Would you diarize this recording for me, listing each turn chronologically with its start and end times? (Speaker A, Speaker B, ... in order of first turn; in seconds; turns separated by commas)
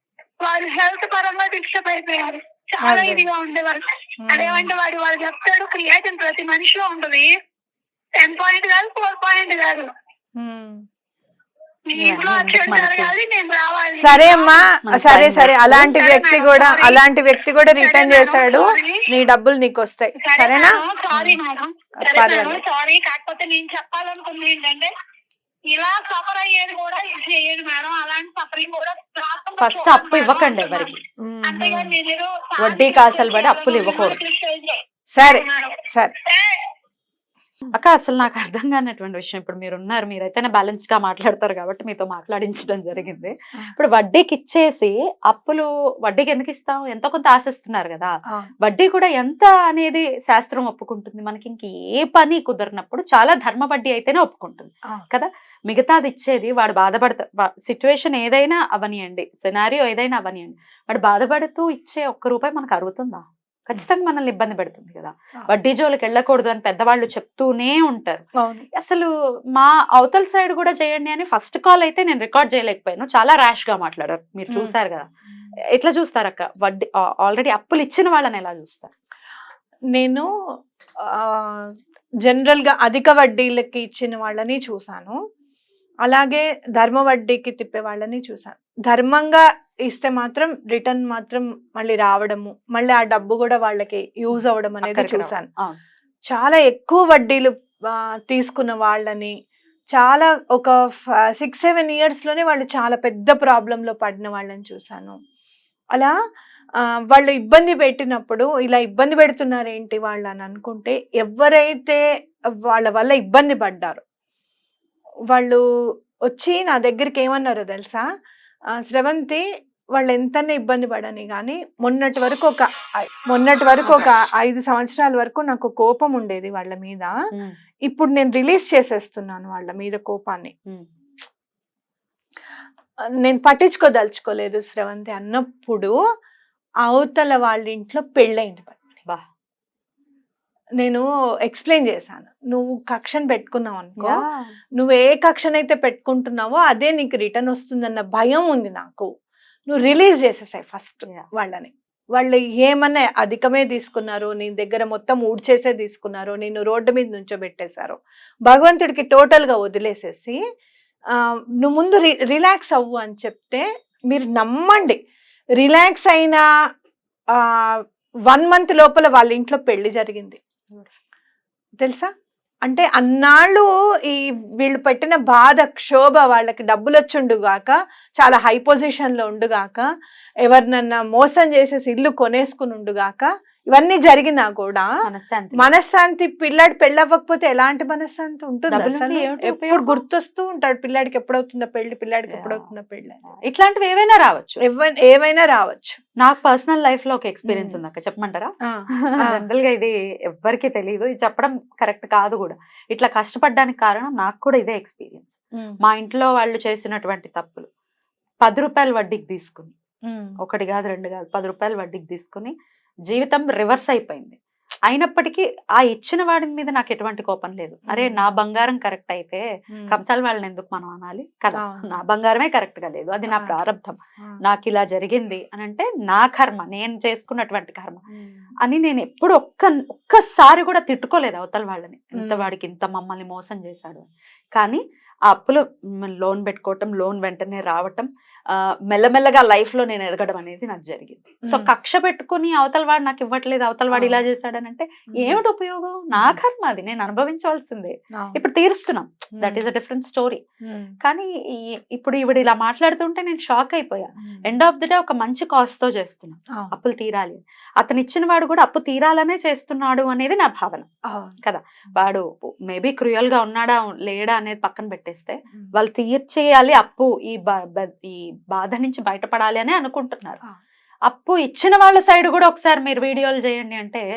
Speaker A: 0.4-7.3, Speaker B: 2.8-3.3, Speaker B: 4.2-4.7, Speaker A: 8.2-9.9, Speaker B: 10.4-10.8, Speaker A: 11.9-14.6, Speaker C: 12.0-13.1, Speaker B: 14.0-20.8, Speaker C: 14.8-15.9, Speaker A: 15.9-17.0, Speaker A: 17.8-19.0, Speaker A: 20.2-24.9, Speaker B: 22.0-22.6, Speaker A: 25.7-30.9, Speaker C: 29.6-31.0, Speaker B: 31.2-32.0, Speaker A: 31.5-36.7, Speaker C: 32.6-34.2, Speaker B: 35.1-36.1, Speaker C: 37.7-68.2, Speaker B: 68.4-68.7, Speaker C: 68.8-75.1, Speaker C: 75.7-78.9, Speaker B: 79.9-80.3, Speaker B: 81.2-81.7, Speaker B: 82.3-85.2, Speaker B: 86.0-95.5, Speaker C: 94.3-95.8, Speaker B: 96.3-99.3, Speaker B: 99.9-100.8, Speaker B: 101.4-105.2, Speaker B: 107.1-112.0, Speaker B: 112.7-114.0, Speaker B: 115.3-115.6, Speaker B: 116.3-118.0, Speaker B: 118.8-119.4, Speaker B: 120.0-127.1, Speaker C: 123.8-124.1, Speaker B: 127.9-130.5, Speaker B: 133.2-135.9, Speaker B: 136.8-138.8, Speaker B: 140.8-144.2, Speaker C: 144.0-144.6, Speaker B: 144.8-149.1, Speaker B: 149.7-160.4, Speaker B: 161.1-165.0, Speaker B: 165.6-166.4, Speaker B: 167.4-170.4, Speaker B: 171.8-172.1, Speaker B: 172.7-179.9, Speaker B: 180.4-184.9, Speaker C: 185.1-185.7, Speaker B: 185.6-193.2, Speaker C: 188.7-190.0, Speaker C: 192.3-192.7, Speaker C: 193.2-194.6, Speaker B: 194.6-196.0, Speaker C: 196.2-198.5, Speaker B: 197.5-197.8, Speaker B: 198.7-199.4, Speaker C: 199.1-207.7, Speaker C: 208.4-209.7, Speaker B: 210.1-210.3, Speaker C: 210.4-212.5, Speaker C: 213.1-228.0, Speaker B: 217.9-218.2, Speaker B: 219.7-220.0, Speaker B: 221.5-221.9, Speaker B: 223.3-223.6, Speaker B: 228.1-228.5, Speaker C: 228.6-250.4, Speaker B: 232.2-232.5, Speaker B: 241.5-241.7, Speaker B: 243.9-244.2, Speaker B: 245.2-245.4, Speaker B: 246.1-246.4, Speaker B: 249.4-249.7, Speaker B: 250.7-250.9, Speaker C: 251.0-260.9, Speaker B: 261.1-261.4, Speaker C: 261.4-270.4, Speaker C: 271.1-274.0